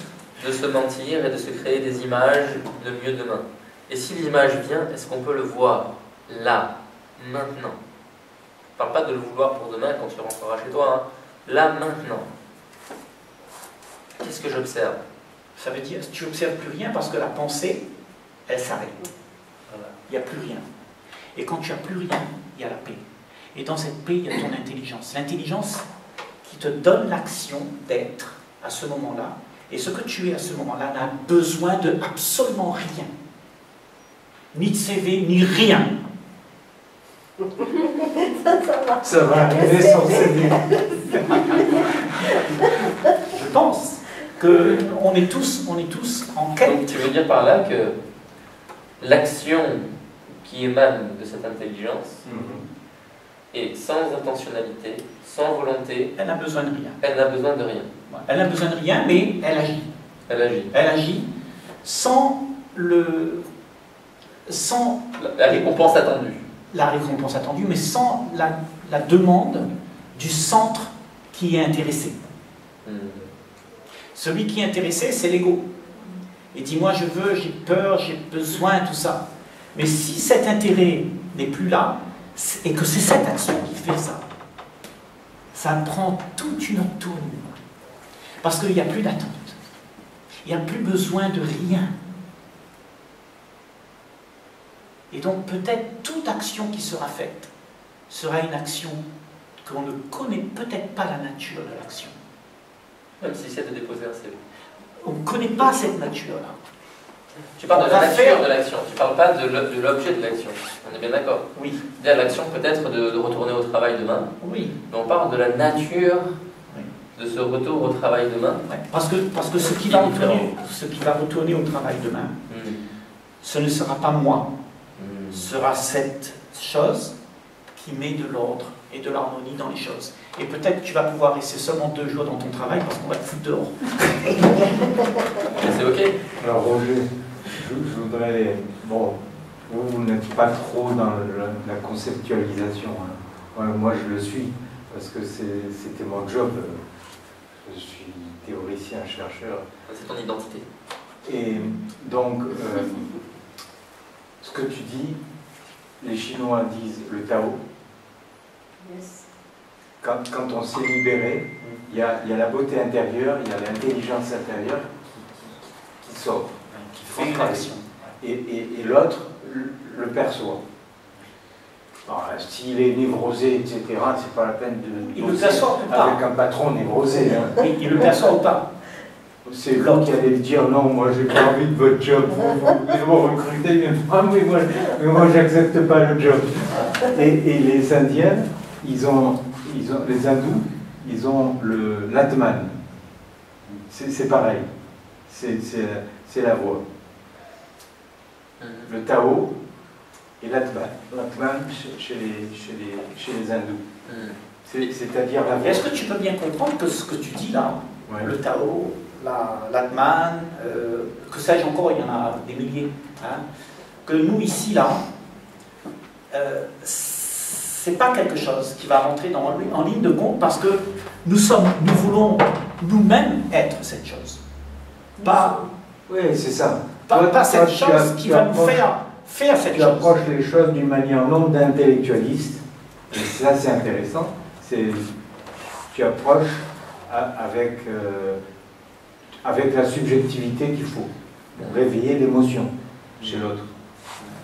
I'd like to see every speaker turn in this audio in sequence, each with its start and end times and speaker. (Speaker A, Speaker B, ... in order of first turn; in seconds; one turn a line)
Speaker A: 0.4-7.8
Speaker A: 8.8-12.3
Speaker A: 14.2-15.0
Speaker B: 15.6-17.9
Speaker B: 18.5-19.1
Speaker B: 20.1-20.6
Speaker B: 21.4-23.0
Speaker B: 23.5-25.9
Speaker B: 26.4-33.1
Speaker B: 34.5-35.9
Speaker C: 37.6-41.8
Speaker D: 39.0-42.7
Speaker C: 42.5-42.9
Speaker B: 43.3-47.0
Speaker A: 46.6-48.0
Speaker A: 49.0-52.2
Speaker B: 52.2-52.6
Speaker D: 52.2-52.6
Speaker A: 53.5-56.1
Speaker B: 56.2-57.0
Speaker A: 57.0-57.9
Speaker B: 58.1-59.9
Speaker A: 60.3-60.7
Speaker B: 60.7-61.3
Speaker B: 61.8-63.5
Speaker B: 64.5-66.0
Speaker A: 65.2-66.4
Speaker B: 66.7-72.2
Speaker A: 72.8-73.2
Speaker B: 74.2-75.7
Speaker B: 76.5-84.2
Speaker B: 85.5-87.5
Speaker B: 88.4-89.6
Speaker B: 90.5-91.9
Speaker B: 95.1-97.5
Speaker B: 98.1-99.0
Speaker B: 99.6-102.2
Speaker A: 103.2-104.4
Speaker B: 105.0-106.6
Speaker A: 107.6-114.3
Speaker B: 107.7-108.4
Speaker B: 111.5-111.8
Speaker B: 114.4-114.7
Speaker A: 114.9-116.4
Speaker A: 117.2-118.6
Speaker B: 118.7-122.3
Speaker A: 119.6-120.5
Speaker A: 122.5-122.8
Speaker B: 123.4-124.5
Speaker A: 125.0-125.5
Speaker B: 125.3-127.2
Speaker B: 127.8-134.8
Speaker A: 135.4-136.2
Speaker D: 136.4-146.8
Speaker D: 147.6-149.6
Speaker A: 149.9-150.7
Speaker D: 151.2-153.2
Speaker D: 154.4-155.2
Speaker D: 156.0-157.6
Speaker C: 158.8-159.2
Speaker D: 160.0-164.9
Speaker B: 165.1-165.5
Speaker D: 166.0-166.6
Speaker B: 166.7-168.1
Speaker D: 167.1-167.7
Speaker D: 168.2-170.6
Speaker D: 172.1-177.7
Speaker B: 175.0-176.2
Speaker B: 177.5-178.7
Speaker D: 179.4-192.8
Speaker B: 179.7-180.1
Speaker D: 193.9-194.7
Speaker D: 195.3-196.8
Speaker A: 198.6-198.9
Speaker D: 198.9-199.6
Speaker D: 200.4-203.8
Speaker A: 204.1-204.4
Speaker D: 204.7-205.8
Speaker B: 205.5-213.4
Speaker B: 214.1-215.1
Speaker B: 216.3-224.4
Speaker C: 225.2-225.7
Speaker B: 225.2-225.6
Speaker D: 226.1-228.8
Speaker B: 227.1-230.2
Speaker D: 229.7-235.1
Speaker D: 235.9-238.4
Speaker D: 239.4-243.7